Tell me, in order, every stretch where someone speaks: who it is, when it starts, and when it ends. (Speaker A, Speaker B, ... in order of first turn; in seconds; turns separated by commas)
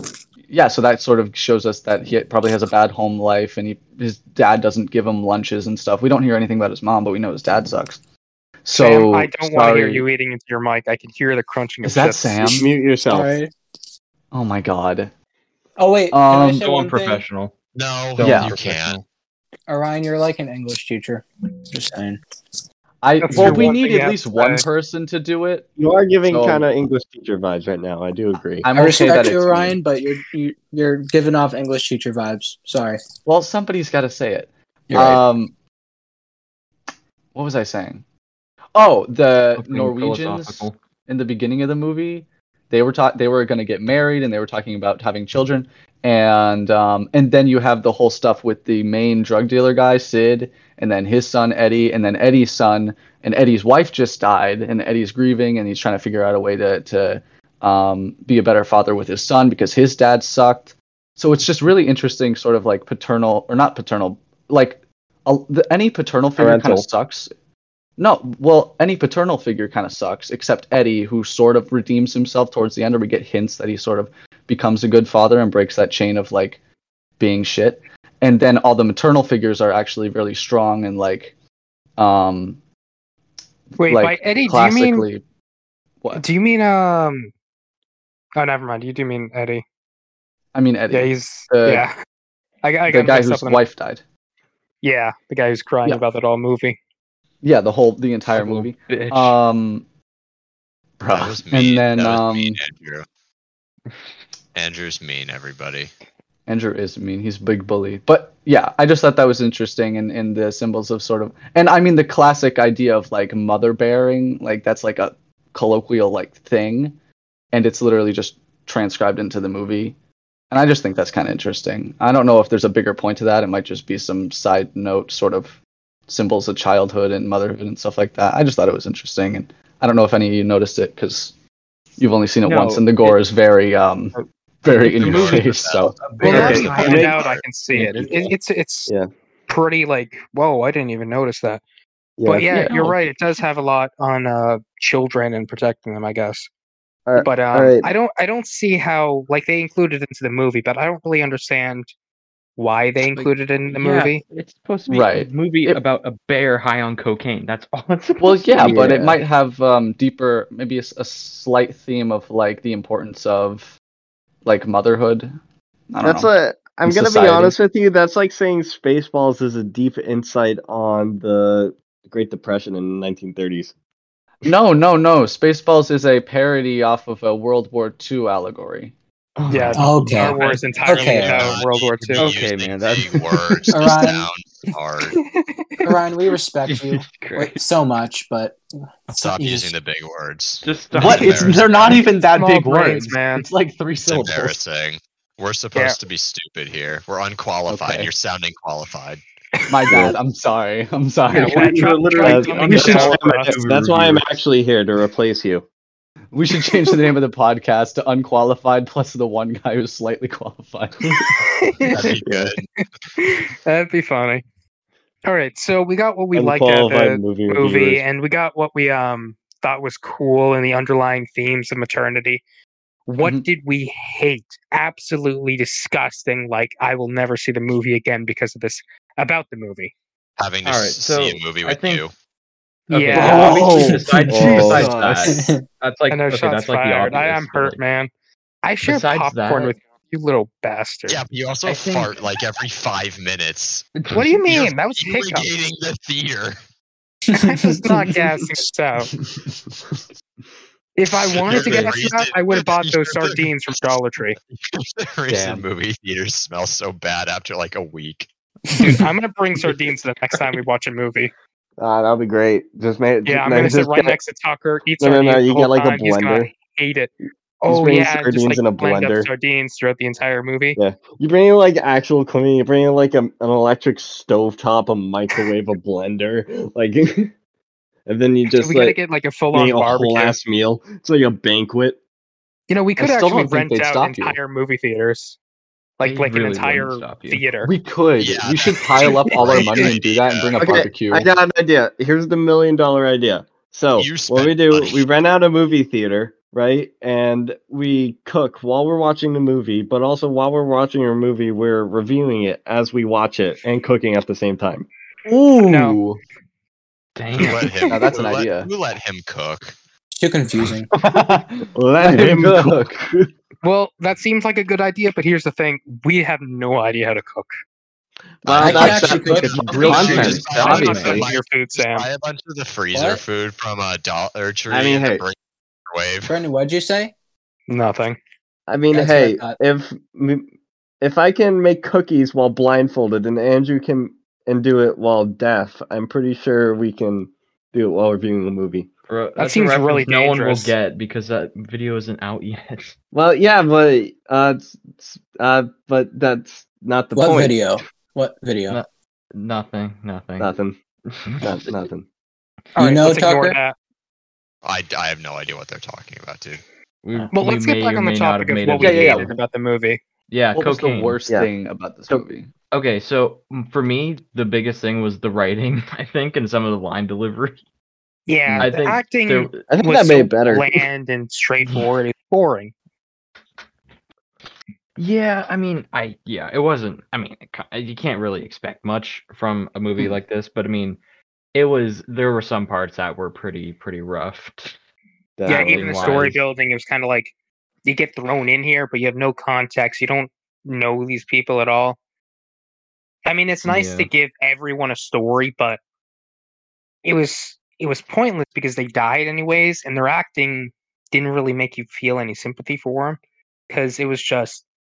Speaker A: 0.5-8.0, Speaker A: 8.6-10.1, Speaker B: 8.7-12.6, Speaker A: 11.8-12.7, Speaker C: 12.5-13.3, Speaker D: 13.1-13.5, Speaker A: 14.3-15.1, Speaker D: 15.8-17.2, Speaker A: 16.1-16.7, Speaker E: 16.5-17.6, Speaker F: 17.8-19.0, Speaker E: 18.1-19.1, Speaker A: 18.2-18.6, Speaker D: 19.7-22.2, Speaker A: 23.0-25.7, Speaker B: 23.2-24.6, Speaker E: 23.4-23.7, Speaker C: 25.8-28.7, Speaker A: 26.3-26.7, Speaker A: 28.6-29.8, Speaker D: 28.7-33.0, Speaker A: 33.2-35.5, Speaker D: 34.9-35.2, Speaker A: 37.4-38.0, Speaker A: 38.8-67.3, Speaker E: 39.6-40.8, Speaker C: 66.4-66.9, Speaker A: 68.0-76.6, Speaker A: 77.2-81.3, Speaker A: 82.0-82.6, Speaker A: 83.7-85.2, Speaker B: 83.8-85.1, Speaker B: 86.2-87.3, Speaker B: 88.3-89.6, Speaker A: 90.5-91.9, Speaker B: 90.9-91.9, Speaker B: 92.6-93.6, Speaker A: 92.9-94.0, Speaker B: 94.8-96.8, Speaker A: 97.4-99.9, Speaker E: 98.3-99.4, Speaker A: 101.0-102.6, Speaker F: 101.0-103.1, Speaker F: 104.5-105.9, Speaker A: 106.5-117.0, Speaker A: 117.5-120.0, Speaker A: 120.5-125.6, Speaker A: 126.1-131.3, Speaker A: 132.0-136.6, Speaker E: 132.4-133.2, Speaker E: 134.7-137.1, Speaker F: 134.9-137.4, Speaker B: 136.2-138.9, Speaker C: 136.3-137.2, Speaker E: 137.7-138.2, Speaker B: 139.5-141.6, Speaker C: 142.2-142.9, Speaker B: 142.2-146.5, Speaker A: 142.5-142.8, Speaker C: 147.1-147.9, Speaker B: 147.2-151.9, Speaker B: 152.6-154.2, Speaker E: 153.0-159.2, Speaker A: 154.9-155.8, Speaker A: 158.2-163.8, Speaker C: 158.6-159.2, Speaker A: 164.4-165.4, Speaker A: 165.9-166.3, Speaker C: 166.0-173.7, Speaker A: 166.8-167.6, Speaker A: 174.4-178.9, Speaker E: 179.4-181.2, Speaker A: 179.5-179.8, Speaker B: 179.5-182.3, Speaker D: 179.8-181.5, Speaker F: 180.9-185.2, Speaker E: 182.2-183.7, Speaker D: 183.7-184.3, Speaker B: 185.2-185.8, Speaker D: 185.8-189.7, Speaker E: 186.7-187.6, Speaker F: 189.2-192.0, Speaker E: 190.6-191.7, Speaker A: 190.9-194.6, Speaker B: 192.3-193.5, Speaker F: 194.1-199.2, Speaker A: 197.7-198.1, Speaker A: 199.7-203.8, Speaker C: 199.9-200.2, Speaker B: 201.3-203.6, Speaker E: 201.7-204.2, Speaker C: 201.7-205.7, Speaker A: 206.3-211.2, Speaker B: 211.4-212.1, Speaker F: 211.8-212.7, Speaker C: 212.2-212.5, Speaker B: 213.2-214.4, Speaker B: 215.2-222.4, Speaker C: 216.3-218.0, Speaker B: 223.1-229.9, Speaker A: 223.2-223.5, Speaker F: 230.4-232.1, Speaker E: 230.6-232.0, Speaker B: 232.9-233.7, Speaker E: 232.9-237.8, Speaker A: 233.2-235.1, Speaker C: 234.3-235.4, Speaker D: 235.2-235.7, Speaker B: 236.1-238.1, Speaker B: 238.6-241.2, Speaker E: 238.8-239.8, Speaker F: 241.1-243.9, Speaker E: 241.7-242.2, Speaker E: 244.0-244.3, Speaker B: 244.1-245.5, Speaker F: 244.5-246.6, Speaker D: 247.3-248.4, Speaker B: 247.3-249.1, Speaker A: 249.4-249.8, Speaker B: 250.9-254.4, Speaker F: 251.1-253.8, Speaker F: 254.5-258.3, Speaker E: 255.3-255.7, Speaker D: 258.7-259.0, Speaker B: 258.8-261.3, Speaker C: 261.8-264.2, Speaker B: 263.2-267.1, Speaker C: 265.0-266.5, Speaker B: 267.6-270.8, Speaker C: 267.7-269.3, Speaker C: 270.8-277.3, Speaker C: 278.1-279.0, Speaker B: 278.5-280.4, Speaker C: 279.5-282.0, Speaker B: 282.7-285.4, Speaker A: 283.0-284.4, Speaker B: 286.0-287.7, Speaker E: 286.0-287.5, Speaker A: 287.6-291.3, Speaker F: 288.2-290.6, Speaker C: 290.6-304.9, Speaker F: 294.0-295.1, Speaker A: 305.2-306.2, Speaker B: 305.6-306.0, Speaker E: 307.2-307.7, Speaker F: 307.4-309.8, Speaker B: 307.4-307.9, Speaker A: 307.9-308.7, Speaker D: 310.2-310.9, Speaker A: 310.9-313.0, Speaker C: 311.7-313.3, Speaker B: 313.6-317.5, Speaker C: 318.4-320.8, Speaker A: 318.5-321.2, Speaker D: 318.6-320.1, Speaker F: 318.6-318.9, Speaker E: 319.6-321.3, Speaker F: 319.8-325.4, Speaker B: 320.6-322.1, Speaker D: 322.9-323.2, Speaker C: 324.7-325.2, Speaker F: 325.9-326.4, Speaker D: 326.3-327.1, Speaker B: 327.7-328.2, Speaker C: 328.7-330.4, Speaker D: 328.9-329.6, Speaker C: 331.0-338.9, Speaker E: 339.1-343.0, Speaker B: 339.4-340.7, Speaker C: 343.1-347.7, Speaker D: 347.2-348.8, Speaker E: 348.7-350.6, Speaker C: 350.4-350.8, Speaker E: 351.1-351.7, Speaker C: 351.4-352.1, Speaker B: 352.8-353.8, Speaker D: 352.8-353.6, Speaker F: 354.6-356.6, Speaker E: 357.0-359.4, Speaker B: 357.3-360.0, Speaker A: 358.8-359.3, Speaker E: 360.3-361.2, Speaker A: 360.5-362.5, Speaker E: 362.7-367.6, Speaker B: 368.3-372.7, Speaker E: 368.5-369.6, Speaker C: 369.7-370.9, Speaker E: 375.0-381.0, Speaker E: 381.5-384.8, Speaker C: 385.4-386.4, Speaker B: 385.5-387.3, Speaker E: 385.5-386.4, Speaker B: 387.9-392.0, Speaker B: 393.3-395.8, Speaker E: 393.7-394.1, Speaker B: 397.0-404.6